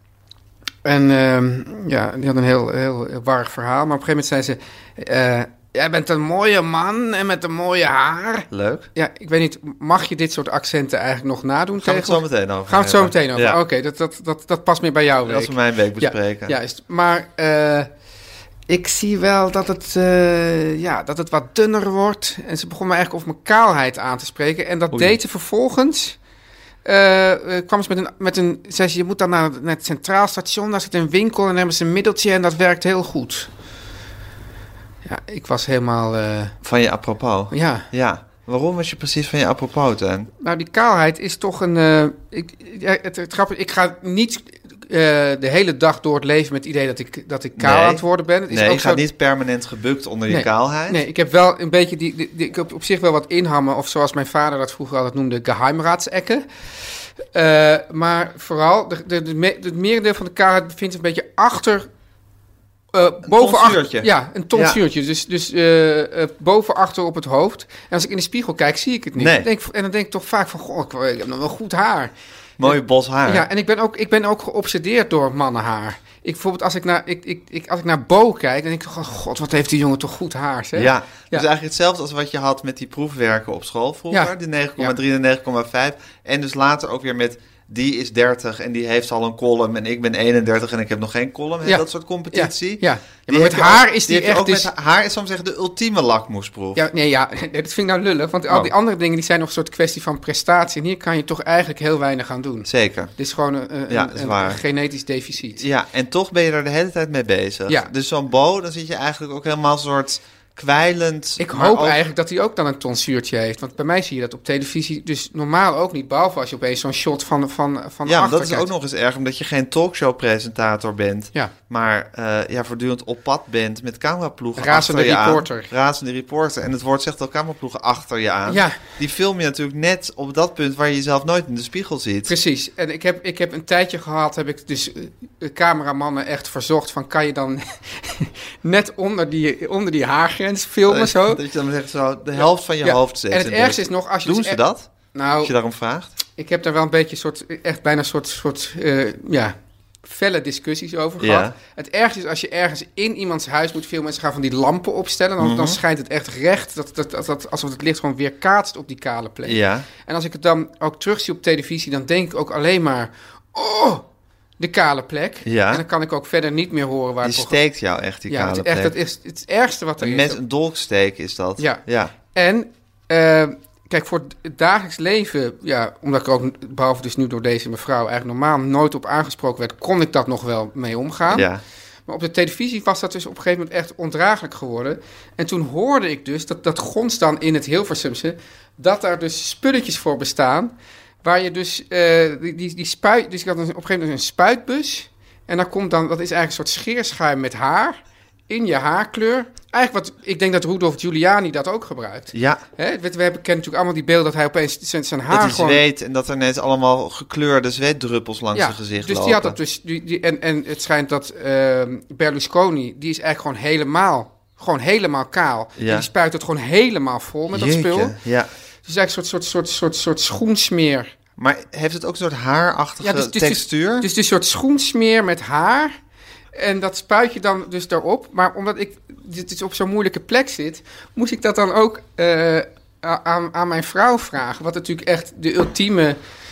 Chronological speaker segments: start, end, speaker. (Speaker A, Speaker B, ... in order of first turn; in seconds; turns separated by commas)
Speaker A: 0.8-17.9, Speaker B: 8.5-8.9, Speaker B: 11.8-13.6, Speaker B: 15.2-16.6, Speaker A: 18.7-26.2, Speaker A: 26.9-33.5, Speaker A: 35.0-36.6, Speaker B: 36.6-40.3, Speaker A: 37.5-37.9, Speaker A: 40.4-49.0, Speaker B: 47.6-51.0, Speaker A: 50.3-56.5, Speaker A: 57.3-61.9, Speaker A: 62.9-72.1, Speaker B: 63.2-64.8, Speaker B: 69.2-69.5, Speaker B: 72.6-73.5, Speaker A: 72.7-81.5, Speaker B: 80.8-96.8, Speaker A: 84.1-85.0, Speaker A: 91.7-94.7, Speaker A: 96.8-105.6, Speaker B: 102.7-103.1, Speaker B: 103.9-104.6, Speaker B: 105.6-112.0, Speaker A: 111.4-118.7, Speaker B: 118.0-132.3, Speaker A: 124.6-125.7, Speaker A: 128.5-128.8, Speaker A: 132.3-141.4, Speaker B: 140.9-144.9, Speaker A: 142.8-144.6, Speaker A: 145.1-145.5, Speaker B: 145.4-146.2, Speaker A: 146.3-164.1, Speaker B: 151.2-151.6, Speaker B: 155.4-155.8, Speaker B: 159.4-159.9, Speaker A: 164.6-167.6, Speaker B: 165.4-165.8, Speaker B: 167.2-168.9, Speaker A: 168.3-170.4, Speaker B: 170.0-172.1, Speaker A: 172.3-181.5, Speaker B: 181.3-181.6, Speaker A: 182.1-205.8, Speaker B: 202.3-202.6, Speaker B: 205.3-209.6, Speaker A: 208.5-218.2, Speaker B: 215.8-216.1, Speaker B: 217.5-218.5, Speaker A: 218.8-221.1, Speaker B: 221.4-224.1, Speaker A: 223.0-226.0, Speaker A: 226.5-236.2